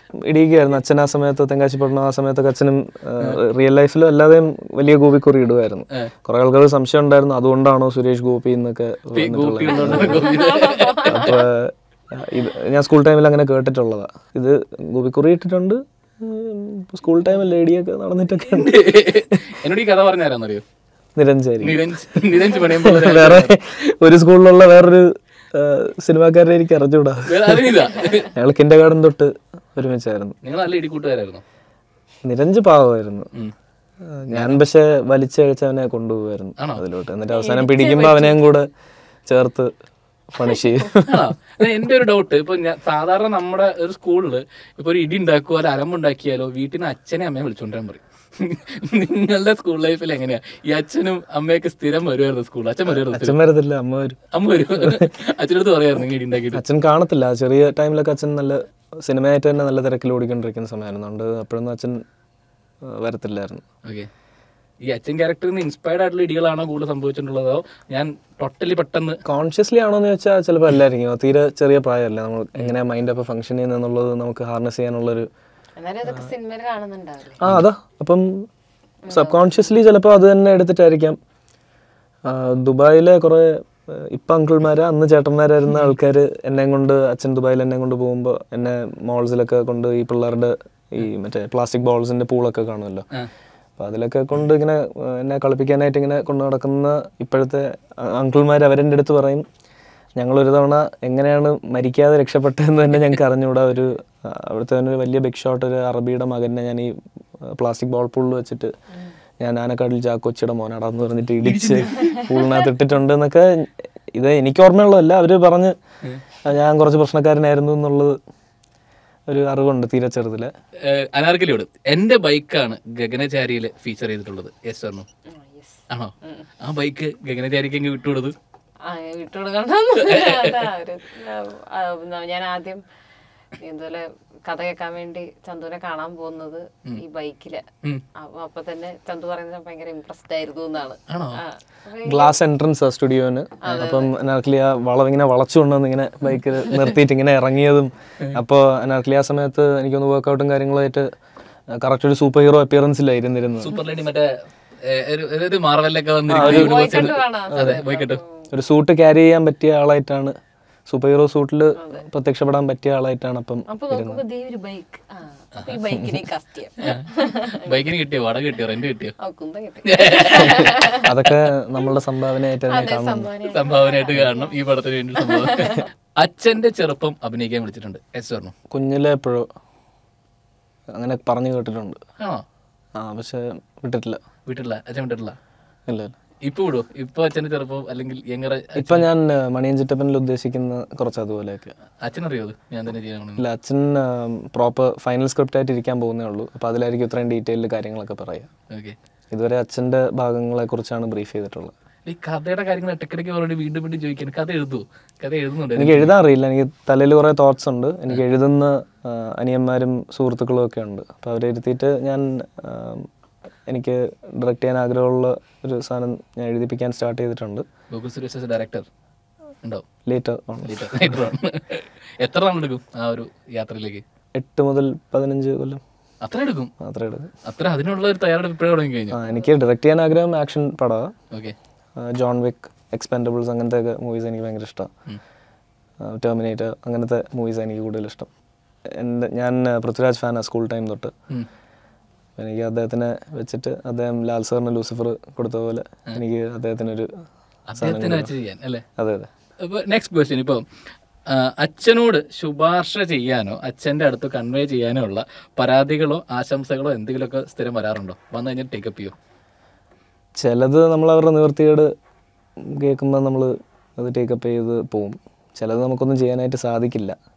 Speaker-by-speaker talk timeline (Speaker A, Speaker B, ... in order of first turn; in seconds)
Speaker A: 0.2-10.3, 11.0-19.4, 21.1-30.3, 32.2-33.3, 34.0-38.7, 39.3-39.7, 40.3-41.3, 52.9-54.2, 54.7-55.1, 56.5-62.0, 62.8-63.6, 69.2-75.3, 77.4-78.5, 79.1-81.2, 82.2-93.1, 93.8-99.5, 100.2-108.7, 109.4-115.7, 116.4-118.2, 119.3-120.5, 142.0-151.1, 151.7-153.7, 156.3-157.8, 158.5-160.4, 160.9-164.2, 170.5-173.3, 178.7-179.5, 180.9-182.0, 183.0-184.2, 185.9-186.1, 188.8-191.7, 193.4-198.5, 199.3-201.7, 205.8-213.1, 213.7-217.7, 220.0-221.3, 224.3-225.8, 226.8-227.3, 229.1-231.1, 232.0-234.9, 236.0-238.3, 238.9-241.1, 242.4-247.2, 247.8-248.3, 249.0-249.3, 260.4-261.9, 262.6-267.1
Speaker B: 9.1-11.4, 18.4-20.6, 21.6-23.6, 27.3-28.3, 30.4-31.4, 34.3-34.6, 41.1-53.4, 54.3-56.6, 64.8-69.2, 111.4-112.1, 120.8-125.1, 125.9-128.3, 130.0-130.6, 141.1-141.4, 153.6-158.2, 166.8-169.2, 169.8-171.4, 173.4-178.5, 184.4-185.4, 186.4-189.1, 192.0-193.4, 198.7-198.9, 202.1-206.1, 217.9-218.9, 220.6-224.0, 226.2-226.7, 227.4-229.2, 247.7-248.8, 249.6-250.6, 251.3-259.1
Speaker C: 9.7-11.4, 37.3-38.4, 40.4-40.9, 75.8-77.4, 79.0-79.4, 112.0-112.6, 125.3-126.5, 128.8-132.8, 133.6-142.3, 143.6-144.2, 156.4-158.5, 161.8-162.1, 163.7-167.9, 169.2-171.1, 172.7-174.6, 175.1-175.8